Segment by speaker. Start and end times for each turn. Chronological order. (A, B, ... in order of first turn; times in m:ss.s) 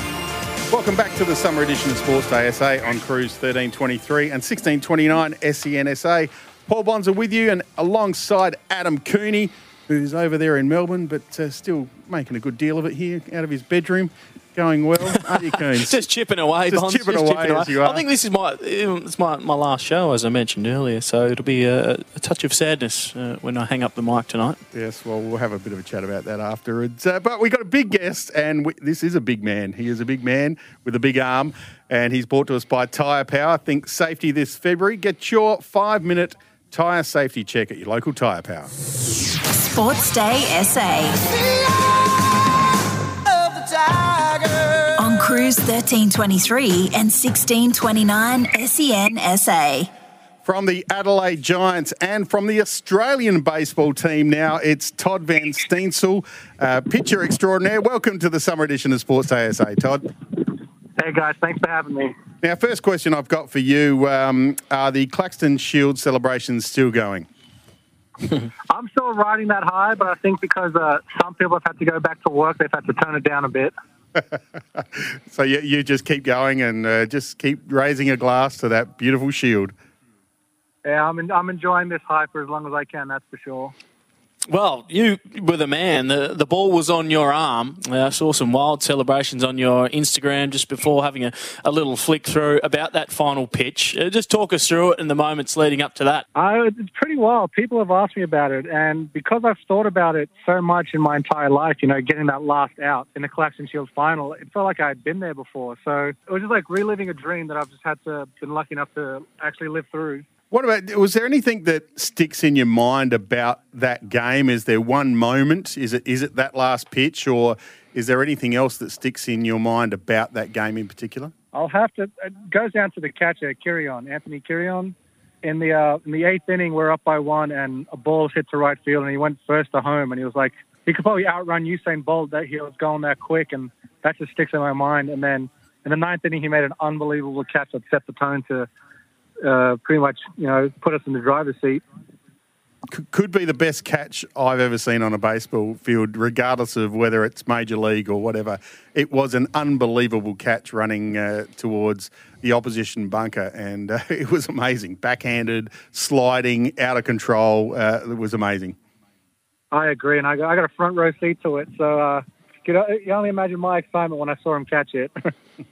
0:00.7-0:16.0 A
0:15.1-0:24.6 B
0:16.7-0:18.0 A
0:24.7-0:38.7 A
0:39.5-0:41.2 C
0:45.0-0:49.9 C
0:50.4-1:00.1 A
1:01.0-1:02.2 D
1:02.4-1:07.3 A
1:08.7-1:13.7 D
1:14.2-1:19.7 A
1:20.8-1:23.8 D
1:24.5-1:36.2 B
1:36.4-1:50.3 D
1:50.5-2:01.3 A
2:01.5-2:18.7 D
2:19.4-2:21.8 D
2:22.9-2:38.8 A
2:39.7-2:45.3 D